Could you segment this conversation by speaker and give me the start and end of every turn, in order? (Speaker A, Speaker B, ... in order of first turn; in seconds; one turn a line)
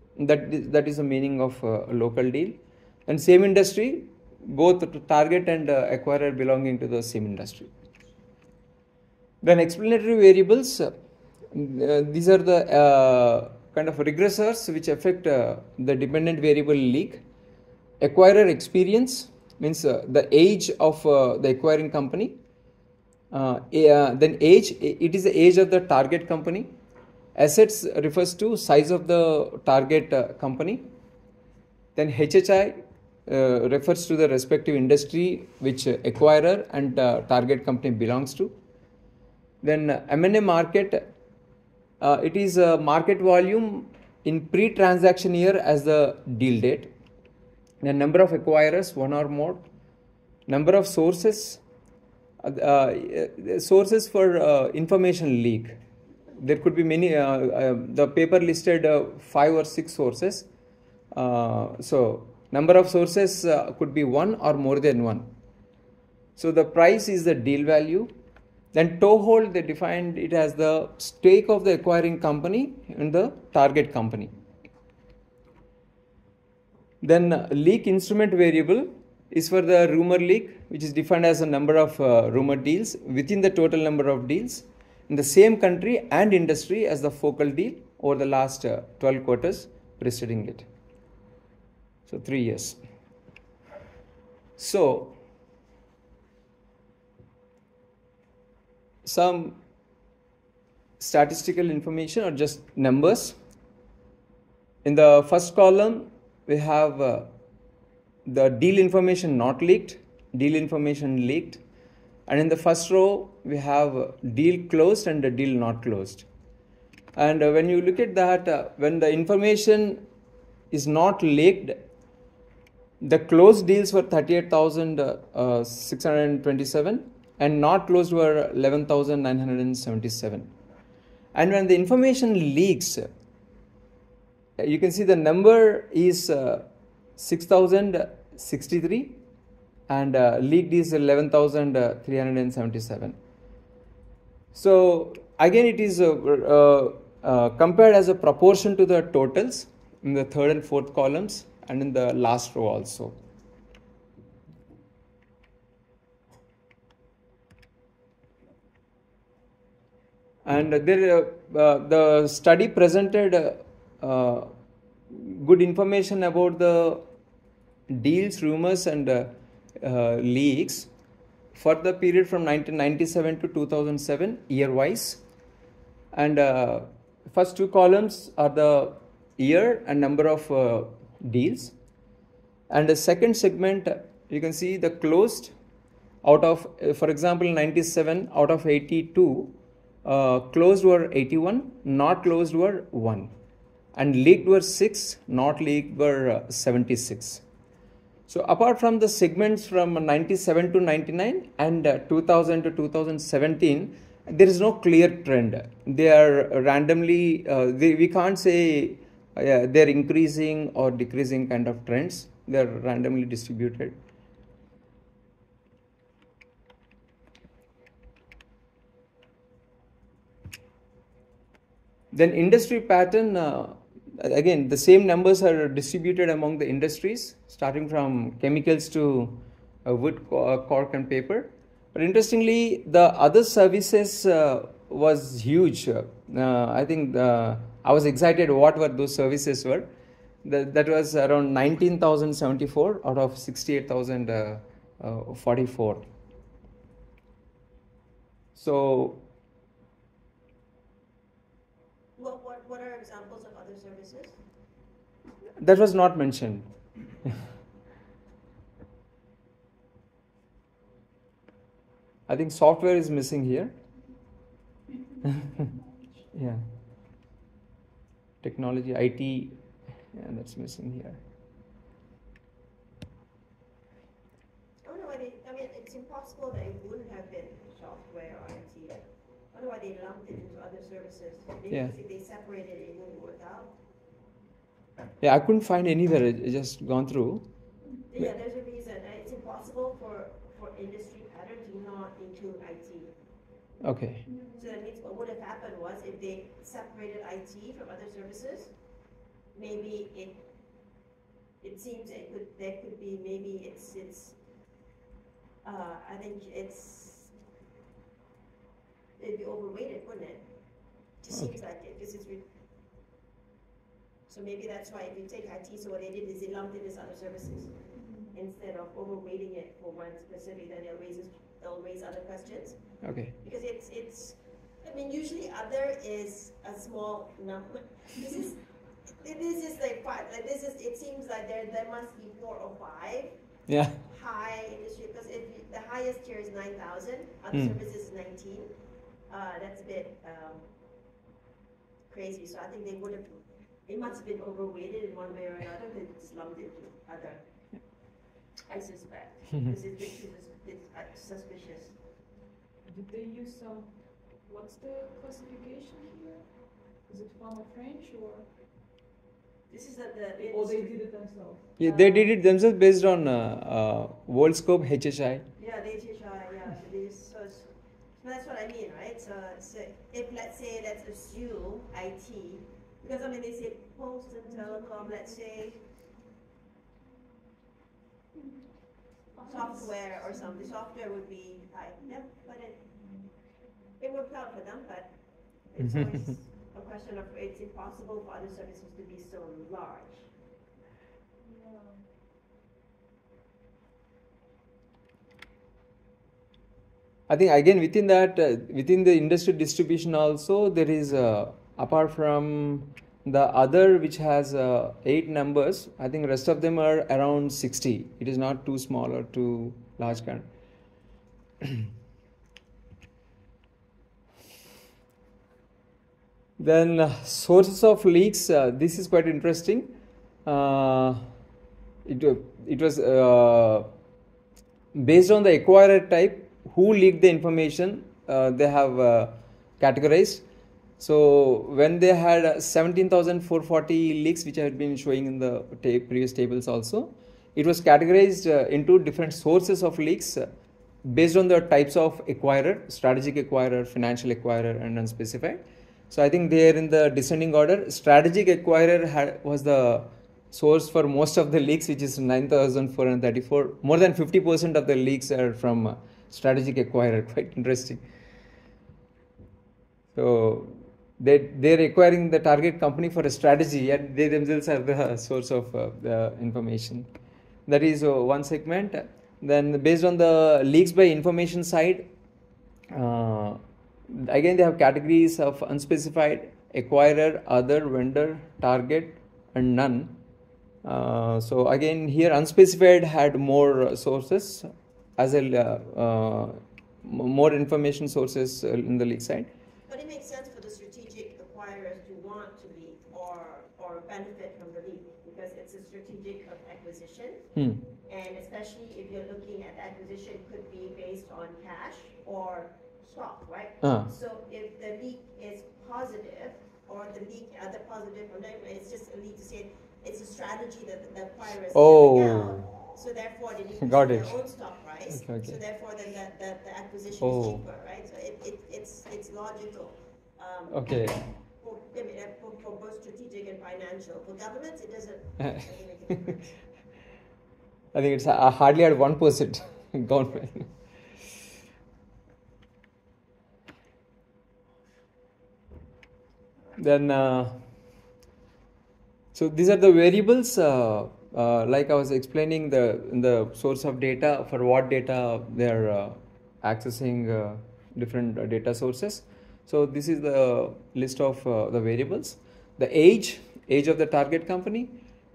Speaker A: 0.2-7.7
Speaker A: 9.4-10.9
Speaker A: 11.5-17.2
Speaker A: 18.0-22.4
Speaker A: 23.3-26.7
Speaker A: 27.4-30.8
Speaker A: 31.9-38.5
Speaker A: 39.6-41.0
Speaker A: 42.0-46.9
Speaker A: 47.8-49.6
Speaker A: 50.5-51.6
Speaker A: 52.4-55.8
Speaker A: 56.3-60.5
Speaker A: 61.1-65.3
Speaker A: 66.4-68.1
Speaker A: 68.7-74.3
Speaker A: 77.0-90.7
Speaker A: 92.0-92.8
Speaker A: 94.6-95.2
Speaker A: 99.0-99.6
Speaker A: 101.0-103.4
Speaker A: 104.8-107.3
Speaker A: 108.2-111.6
Speaker A: 112.3-116.2
Speaker A: 117.1-120.0
Speaker A: 120.7-121.8
Speaker A: 123.0-130.5
Speaker A: 131.3-133.1
Speaker A: 134.6-139.2
Speaker A: 139.9-143.2
Speaker A: 144.5-153.2
Speaker A: 160.4-164.5
Speaker A: 165.1-167.0
Speaker A: 167.9-170.9
Speaker A: 171.5-175.2
Speaker A: 176.1-181.7
Speaker A: 182.7-185.5
Speaker A: 186.2-193.3
Speaker A: 193.9-197.4
Speaker A: 198.3-214.0
Speaker A: 222.1-239.9
Speaker A: 240.4-246.1
Speaker A: 248.5-249.2
Speaker B: 252.2-254.4
Speaker A: 255.6-256.6
Speaker A: 262.3-263.7
Speaker C: 264.9-266.3
Speaker A: 266.3-266.6
Speaker A: 268.4-269.6
Speaker A: 270.1-271.2
Speaker B: 274.8-283.7
Speaker A: 285.2-287.4
Speaker B: 288.1-293.1
Speaker A: 293.8-294.2
Speaker C: 294.2-294.8
Speaker B: 294.6-298.7
Speaker B: 299.5-300.4
Speaker B: 301.6-304.4
Speaker B: 305.6-307.3
Speaker B: 309.2-310.4
Speaker B: 311.2-312.4
Speaker B: 314.3-317.8
Speaker C: 317.9-318.3
Speaker B: 318.3-328.6
Speaker A: 323.0-323.3
Speaker B: 329.2-333.4
Speaker A: 333.7-334.0
Speaker B: 334.0-338.7
Speaker B: 339.3-340.7
Speaker B: 342.1-348.0
Speaker B: 348.7-352.0
Speaker C: 352.9-358.5
Speaker B: 359.7-361.0
Speaker C: 360.4-361.8
Speaker A: 361.8-365.4
Speaker B: 361.8-362.3
Speaker B: 365.6-375.8
Speaker C: 374.7-375.2
Speaker C: 379.3-380.5
Speaker B: 379.4-382.8
Speaker B: 384.0-385.1
Speaker B: 385.7-390.3
Speaker A: 385.8-386.1
Speaker C: 391.4-392.0
Speaker A: 397.3-410.5
Speaker A: 416.6-419.9
Speaker A: 420.4-421.2
Speaker A: 422.0-423.9
Speaker A: 424.9-430.4
Speaker A: 431.0-440.4
Speaker A: 441.0-458.0
Speaker A: 460.1-467.1
Speaker A: 467.7-472.1
Speaker A: 472.9-480.1
Speaker A: 480.8-489.5
Speaker B: 489.9-497.5
Speaker A: 497.5-497.8
Speaker B: 498.1-526.5
Speaker A: 503.8-504.1
Speaker A: 511.7-512.7
Speaker A: 513.8-514.4
Speaker A: 515.1-515.6
Speaker A: 517.2-517.6
Speaker A: 520.7-521.2
Speaker A: 527.9-530.7
Speaker A: 536.8-537.6
Speaker A: 539.3-555.0